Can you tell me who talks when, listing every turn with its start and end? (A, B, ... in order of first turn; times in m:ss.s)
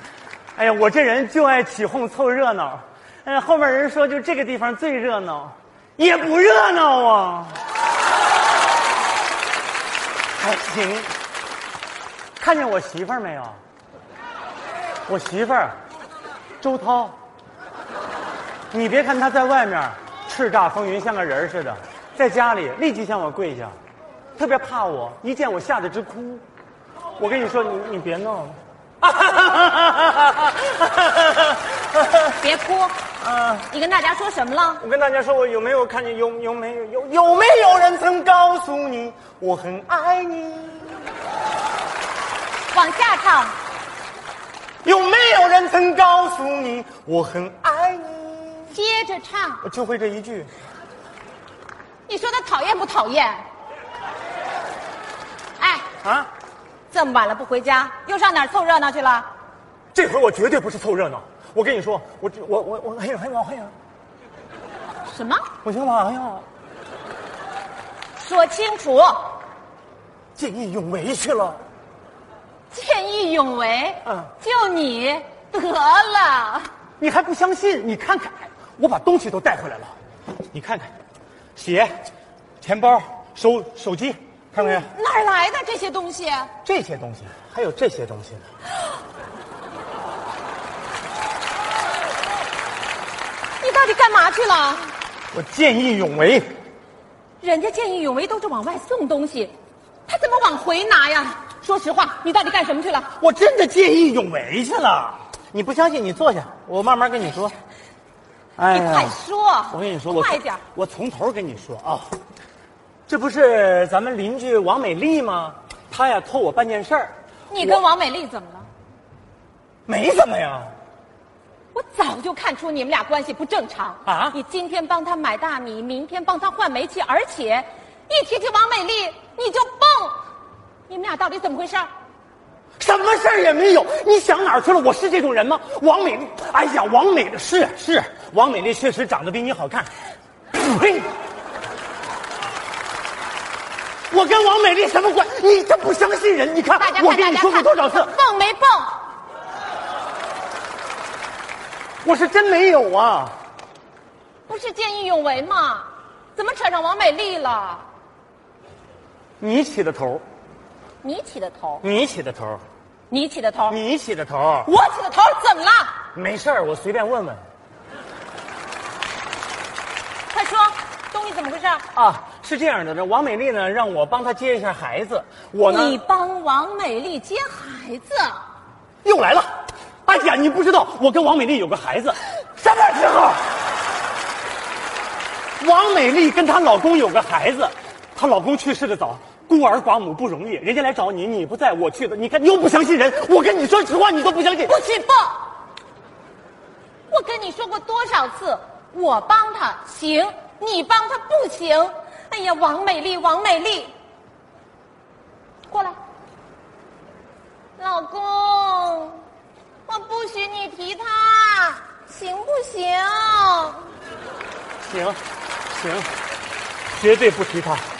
0:00.6-0:07.6 A
0:10.4-0:11.1 A
0:12.4-0:13.6 A
0:15.1-0:15.8 A
0:16.6-0:17.2 A
0:18.7-0:23.8 A
0:24.4-0:26.4 A
0:27.2-0:32.3 A
0:32.3-0:33.0 B
0:33.2-0:33.7 A
0:33.7-0:34.8 B
0:34.8-0:41.1 A
0:42.7-0:43.6 B
0:44.8-0:48.8 A
0:48.7-0:49.6 B
0:49.6-0:50.5 A
0:52.1-0:53.4 B
0:55.6-0:55.9 B
0:56.0-0:56.3 A
0:56.9-0:59.3 B
0:59.9-1:03.7 A
1:05.1-1:05.5 B
1:05.6-1:06.5 A
1:08.2-1:09.4 B
1:10.4-1:11.6 A
1:12.7-1:16.7 B
1:14.0-1:14.3 A
1:17.0-1:20.0 A
1:20.5-1:20.9 A
1:21.6-1:22.0 A
1:22.6-1:24.9 A
1:24.6-1:26.5 B
1:26.6-1:28.4 A
1:33.6-1:34.9 B
1:35.3-1:36.5 A
1:37.4-1:39.5 B
1:40.1-1:43.1 B
1:43.2-1:47.6 A
1:48.6-1:49.2 A
1:48.7-1:50.6 B
1:49.7-1:52.1 A
1:53.1-1:57.8 A
1:57.5-1:58.7 B
1:59.9-2:00.7 A
2:01.7-2:10.2 B
2:04.1-2:04.4 A
2:10.9-2:11.9 B
2:12.8-2:19.9 A
2:20.5-2:21.1 A
2:24.1-2:28.2 A
2:26.8-2:29.0 B
2:32.0-2:33.4 A
2:34.5-2:37.9 B
2:39.4-2:40.2 A
2:41.0-2:41.8 B
2:41.8-2:42.6 A
2:43.1-2:43.8 B
2:43.7-2:44.7 A
2:44.6-2:46.0 B
2:46.1-2:47.4 A
2:50.3-2:51.9 B
2:51.9-2:56.0 A
2:55.7-2:58.4 B
2:59.0-2:59.5 A
3:00.0-3:03.5 A
3:05.6-3:14.8 A
3:14.6-3:15.4 B
3:17.1-3:23.9 B
3:25.7-3:26.0 B
3:27.8-3:29.2 B
3:29.9-3:33.8 B
3:34.8-3:36.1 A
3:36.9-3:37.8 A